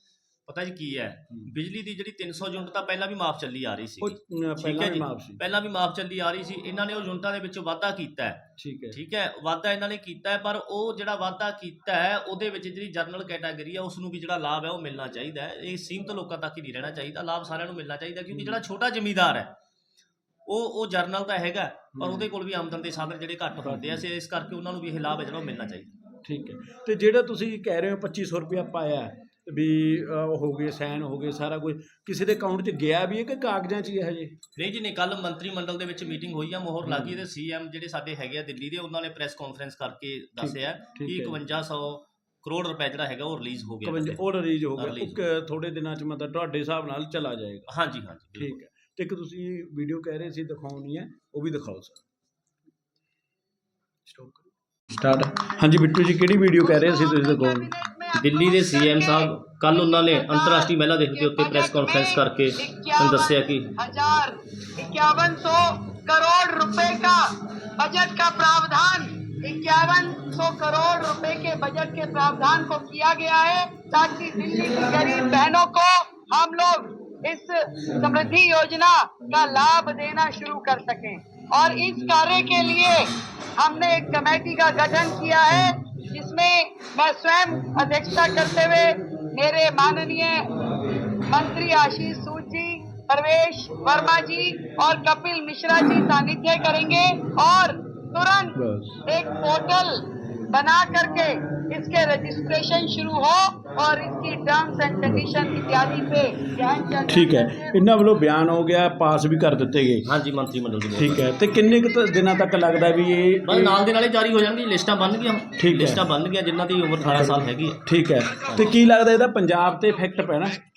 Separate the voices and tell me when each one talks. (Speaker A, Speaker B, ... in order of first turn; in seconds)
Speaker A: 0.5-19.5, 20.5-25.9, 34.5-44.2, 44.8-45.2, 47.7-48.6, 58.1-63.7, 110.0-111.2, 113.5-117.8, 118.3-118.8
Speaker B: 4.0-5.4, 8.6-9.0, 18.3-18.6, 21.9-22.3, 23.6-24.0, 26.2-34.4, 36.8-37.2, 40.4-41.4, 43.8-47.7, 48.4-52.0, 54.1-57.7, 98.5-99.0, 105.0-105.3, 107.1-110.1, 111.0-113.7, 115.6-116.0, 117.1-120.6
Speaker C: 56.6-90.5, 91.2-107.8